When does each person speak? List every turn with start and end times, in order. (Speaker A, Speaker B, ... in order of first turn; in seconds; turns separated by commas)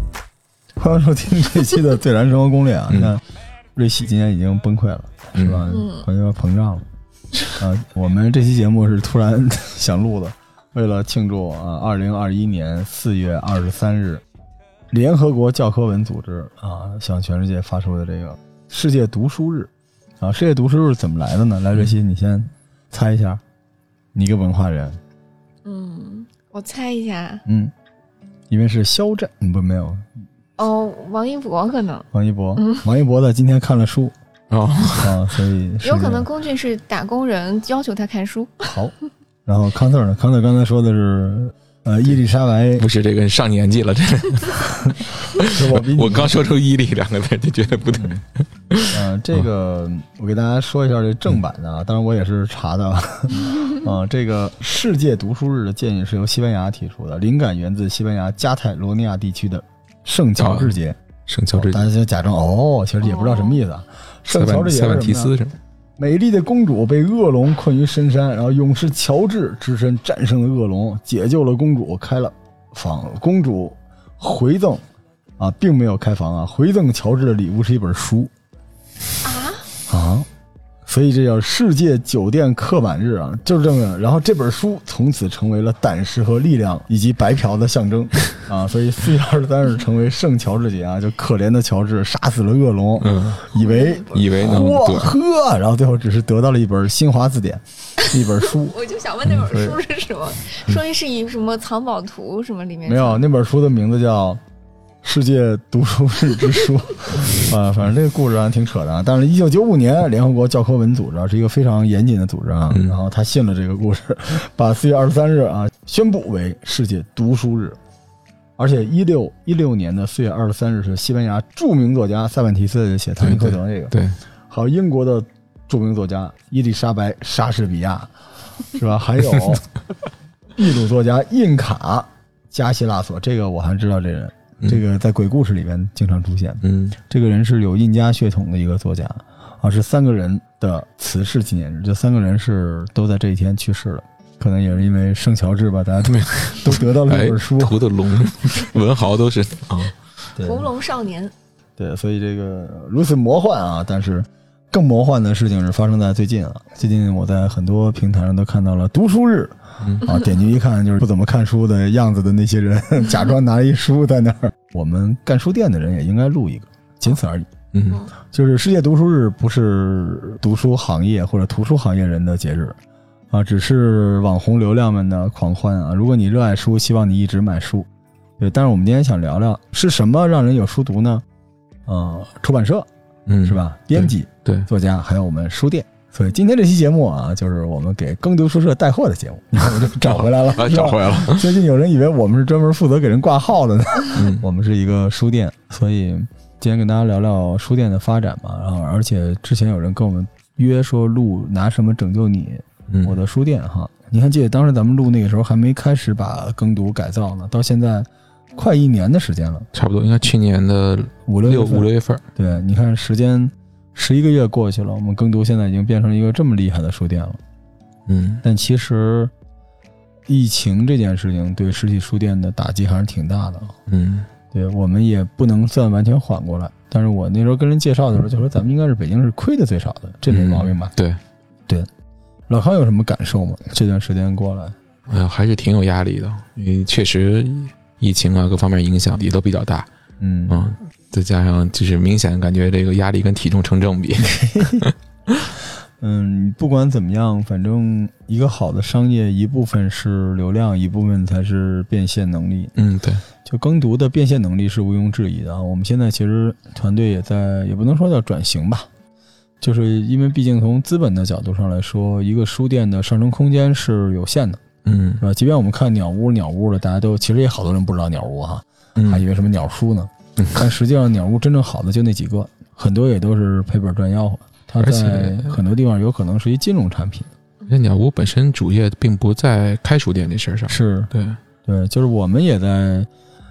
Speaker A: 0.8-3.2, Speaker A: 3.8-6.9, Speaker B: 5.3-5.6, Speaker C: 5.7-6.0, Speaker A: 7.5-14.2, Speaker A: 14.9-23.4, Speaker A: 24.1-25.0, Speaker C: 25.6-27.4, Speaker A: 27.4-27.7, Speaker A: 28.5-30.1, Speaker C: 30.6-32.8, Speaker A: 32.1-34.1, Speaker B: 34.5-35.3, Speaker A: 35.0-36.3, Speaker C: 35.8-38.7, Speaker A: 38.7-38.9, Speaker A: 39.5-42.9, Speaker B: 42.8-49.0, Speaker A: 45.4-46.4, Speaker A: 48.0-48.2, Speaker A: 48.9-61.0, Speaker B: 60.4-60.7, Speaker B: 61.3-61.9, Speaker A: 61.5-65.3, Speaker C: 63.0-63.6, Speaker B: 64.3-65.5, Speaker A: 66.0-74.8, Speaker A: 75.4-78.3, Speaker C: 79.2-79.7, Speaker A: 79.9-80.3, Speaker A: 80.8-98.8, Speaker B: 93.0-93.5, Speaker C: 93.5-94.1, Speaker B: 94.1-95.1, Speaker C: 98.4-103.2, Speaker A: 99.3-99.8, Speaker A: 102.8-104.4, Speaker A: 105.0-117.8, Speaker B: 112.7-113.0, Speaker A: 118.6-123.9, Speaker B: 123.2-124.2, Speaker A: 124.5-128.1, Speaker A: 128.7-129.7, Speaker A: 130.6-147.8, Speaker B: 136.6-137.0, Speaker B: 146.0-149.9, Speaker A: 150.3-150.7, Speaker C: 150.4-151.3, Speaker A: 151.8-167.5, Speaker B: 159.8-160.1, Speaker B: 167.7-168.0, Speaker A: 168.2-172.8, Speaker A: 173.3-177.9, Speaker A: 178.4-181.2, Speaker A: 181.9-182.9, Speaker B: 183.3-184.7, Speaker A: 183.4-209.7, Speaker B: 190.0-191.5, Speaker B: 194.1-194.4, Speaker B: 202.9-203.1, Speaker B: 209.7-212.2, Speaker A: 211.3-217.4, Speaker B: 218.1-218.4, Speaker A: 218.4-219.3, Speaker A: 220.3-223.7, Speaker B: 223.9-224.3, Speaker A: 224.5-230.9, Speaker B: 230.3-231.2, Speaker A: 232.5-234.8, Speaker B: 235.1-239.9, Speaker A: 240.2-240.6, Speaker B: 240.5-244.9, Speaker A: 244.2-244.9, Speaker A: 246.0-252.7, Speaker B: 252.8-253.2, Speaker A: 253.4-258.9, Speaker A: 259.6-264.6, Speaker B: 264.8-265.2, Speaker A: 265.2-277.3, Speaker B: 269.0-269.2, Speaker B: 274.8-275.6, Speaker B: 277.7-281.4, Speaker A: 280.7-281.1, Speaker A: 281.6-283.1